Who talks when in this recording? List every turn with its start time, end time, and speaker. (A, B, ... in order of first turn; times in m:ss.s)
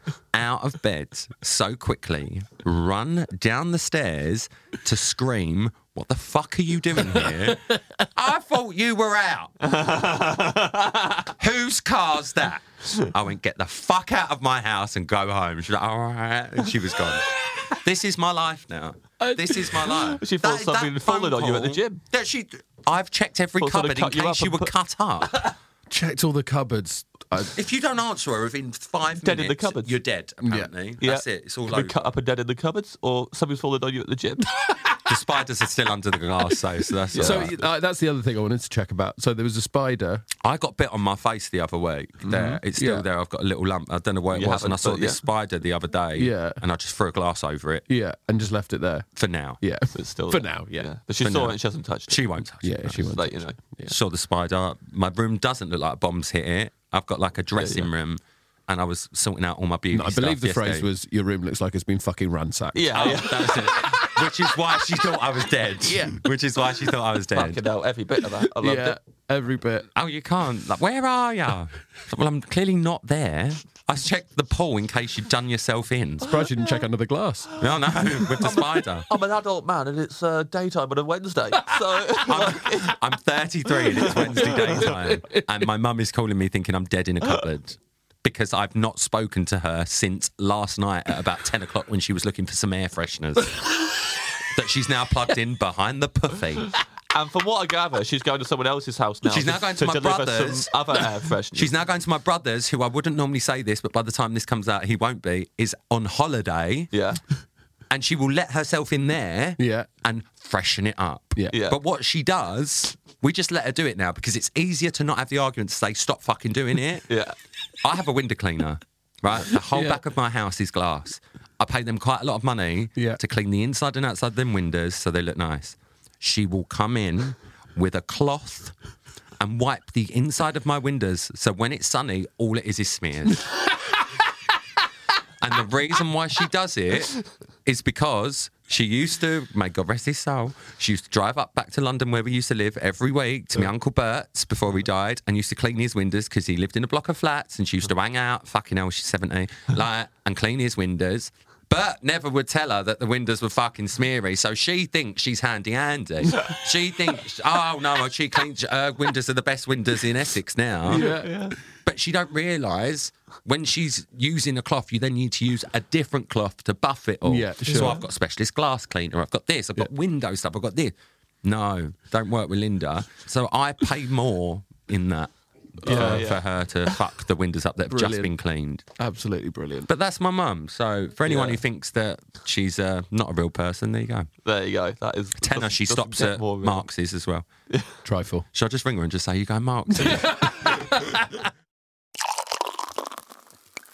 0:00.3-0:09.6 A
0:09.6-0:11.3 B
0:11.4-0:25.5 A
0:19.2-0:20.0 C
0:20.1-0:22.0 B
0:23.6-0:24.7 B
0:25.9-0:27.6 C
0:27.5-0:32.1 A
0:29.2-0:30.0 B
0:30.4-0:30.7 C
0:31.0-0:34.5 B
0:35.0-0:37.6 A
0:37.1-0:37.6 B
0:37.2-0:40.3 C
0:40.4-0:47.9 A
0:42.3-0:42.6 B
0:42.3-0:43.1 C
0:44.3-0:45.2 B
0:46.2-0:46.6 C
0:47.9-0:49.1 C
0:49.2-0:49.6 A
0:49.6-0:50.9 C
0:49.9-0:52.3 B
0:51.2-0:53.2 A
0:52.6-0:54.0 C
0:53.0-0:53.6 B
0:53.9-1:00.9 A
0:57.6-0:57.9 B
0:59.9-1:04.3 C
1:02.7-1:03.6 B
1:02.9-1:07.6 A
1:05.8-1:06.2 C
1:07.3-1:09.0 B
1:08.6-1:09.9 C
1:10.0-1:16.4 A
1:16.2-1:17.5 C
1:17.6-1:19.1 A
1:18.3-1:23.0 B
1:22.2-1:33.8 A
1:24.1-1:25.0 B
1:24.5-1:25.4 C
1:34.5-1:36.7 A
1:37.1-1:41.7 B
1:39.2-1:40.7 A
1:41.5-1:46.9 A
1:46.9-1:47.2 B
1:47.9-1:57.1 A
1:49.6-1:49.9 C
1:51.5-1:51.8 B
1:57.1-1:57.4 B
1:57.8-2:08.7 A
1:59.7-2:00.0 C
2:09.4-2:13.5 A
2:15.4-2:41.1 A
2:40.9-2:41.4 C
2:40.9-2:41.6 B
2:41.7-2:58.9 A
2:47.2-2:48.0 C
2:47.7-2:48.0 B
2:55.8-2:56.3 C
2:55.8-2:57.0 B
2:57.9-2:58.3 C
2:59.0-2:59.9 C
2:59.9-3:04.3 A
3:01.2-3:01.6 B
3:04.4-3:06.9 B
3:05.4-3:07.5 A
3:08.0-3:08.5 C
3:08.5-3:10.6 A
3:10.0-3:11.2 C